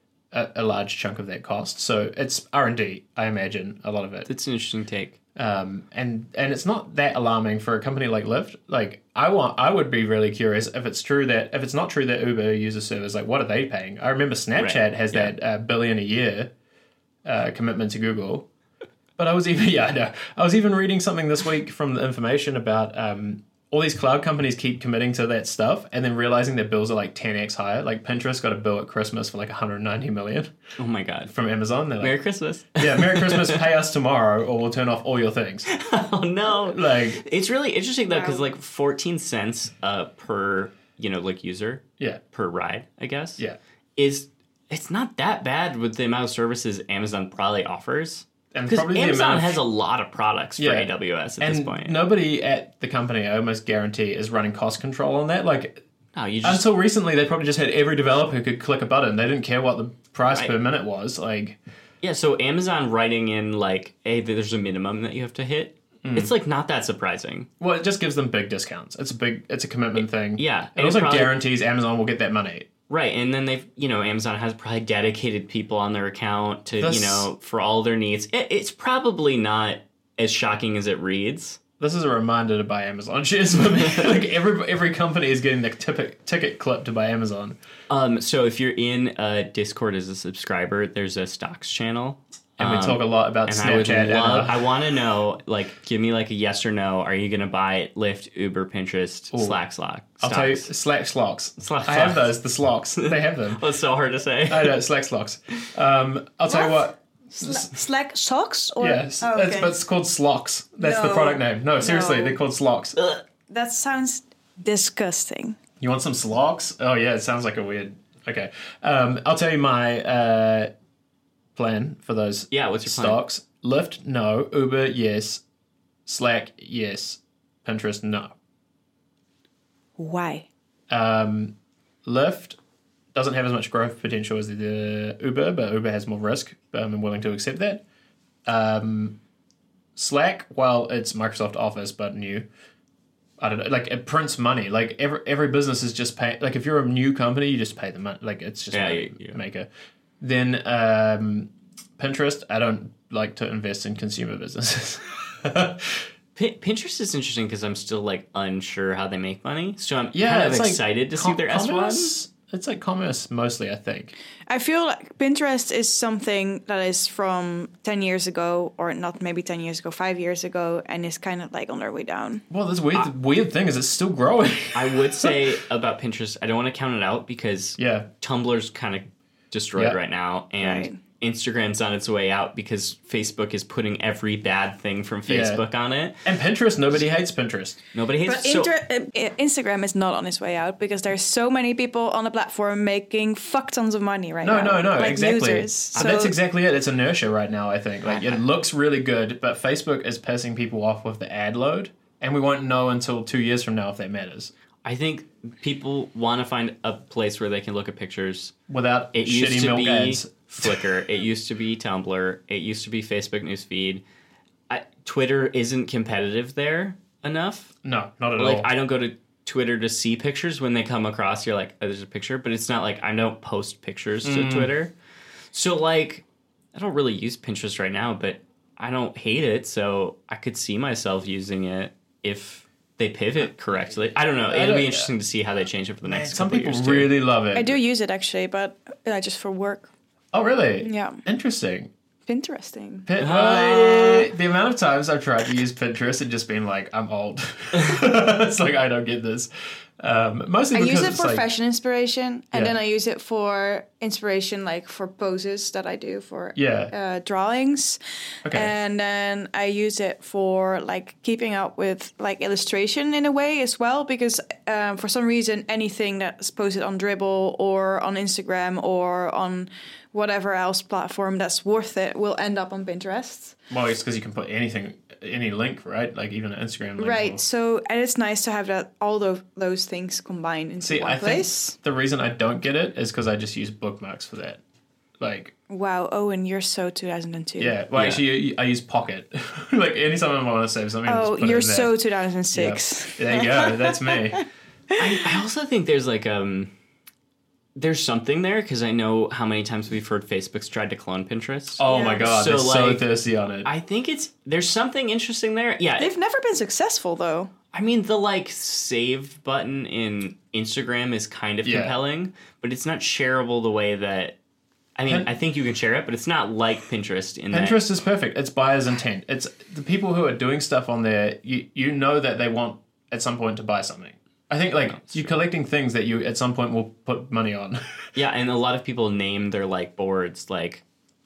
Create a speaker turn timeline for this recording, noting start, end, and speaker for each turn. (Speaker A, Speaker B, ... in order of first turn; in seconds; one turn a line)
Speaker A: 0.3-4.3
Speaker B: 4.2-5.2
Speaker A: 5.3-16.5
Speaker B: 14.6-15.3
Speaker A: 17.2-18.5
Speaker A: 19.2-30.5
Speaker B: 30.8-31.3
Speaker A: 31.3-32.2
Speaker B: 32.0-33.6
Speaker A: 32.7-35.7
Speaker B: 35.7-43.4
Speaker A: 36.6-37.2
Speaker C: 38.1-38.4
Speaker B: 44.0-52.0
Speaker A: 48.5-49.6
Speaker A: 50.6-55.8
Speaker B: 56.1-56.7
Speaker A: 56.4-61.6
Speaker B: 62.0-67.5
Speaker A: 66.0-66.3
Speaker A: 67.6-72.7
Speaker B: 70.0-71.3
Speaker B: 72.9-81.6
Speaker A: 76.8-77.3
Speaker A: 81.8-87.6
Speaker B: 87.9-100.7
Speaker A: 92.6-94.6
Speaker A: 99.3-99.6
Speaker A: 100.2-103.6
Speaker B: 101.6-102.3
Speaker B: 103.0-104.8
Speaker A: 104.5-107.7
Speaker C: 106.5-109.7
Speaker A: 108.8-113.0
Speaker C: 110.8-112.4
Speaker B: 113.0-113.2
Speaker C: 113.5-115.6
Speaker A: 115.8-120.7
Speaker A: 121.5-125.4
Speaker B: 122.5-123.2
Speaker A: 126.0-128.3
Speaker C: 130.0-130.5
Speaker A: 130.9-132.6
Speaker A: 133.1-137.8
Speaker A: 138.4-139.2
Speaker A: 139.9-142.5
Speaker A: 143.4-149.7
Speaker B: 148.7-149.4
Speaker A: 150.2-156.1
Speaker B: 156.3-162.1
Speaker A: 160.1-164.1
Speaker C: 164.5-172.4
Speaker A: 172.5-175.4
Speaker B: 174.7-186.2
Speaker A: 177.8-178.1
Speaker C: 180.6-181.0
Speaker A: 185.3-185.6
Speaker A: 186.2-187.8
Speaker B: 187.9-188.7
Speaker C: 188.2-196.3
Speaker A: 194.4-204.5
Speaker B: 198.1-198.4
Speaker B: 204.8-208.5
Speaker A: 208.7-210.9
Speaker B: 209.1-214.0
Speaker B: 214.7-217.7
Speaker A: 217.8-218.7
Speaker B: 218.4-224.9
Speaker A: 224.2-224.7
Speaker B: 225.5-237.1
Speaker A: 234.5-235.1
Speaker A: 236.0-237.8
Speaker C: 237.5-239.9
Speaker A: 240.3-241.9
Speaker C: 240.8-241.2
Speaker C: 242.3-243.1
Speaker A: 243.1-251.4
Speaker B: 243.2-244.3
Speaker B: 247.7-248.0
Speaker C: 250.7-273.6
Speaker A: 256.6-256.9
Speaker A: 258.4-258.7
Speaker A: 273.7-277.4
Speaker C: 277.0-281.8
Speaker A: 280.8-284.6
Speaker A: 285.2-285.5
Speaker C: 285.7-287.8
Speaker A: 287.6-291.9
Speaker B: 287.9-288.2
Speaker C: 291.1-294.4
Speaker A: 292.5-294.4
Speaker C: 294.9-295.2
Speaker B: 295.0-296.7
Speaker B: 297.8-303.1
Speaker A: 301.8-303.7
Speaker C: 301.8-302.3
Speaker B: 303.6-306.1
Speaker C: 306.0-307.5
Speaker B: 307.7-314.4
Speaker A: 311.6-312.0
Speaker B: 314.9-317.8
Speaker A: 317.5-327.8
Speaker B: 324.9-325.3
Speaker B: 328.1-330.8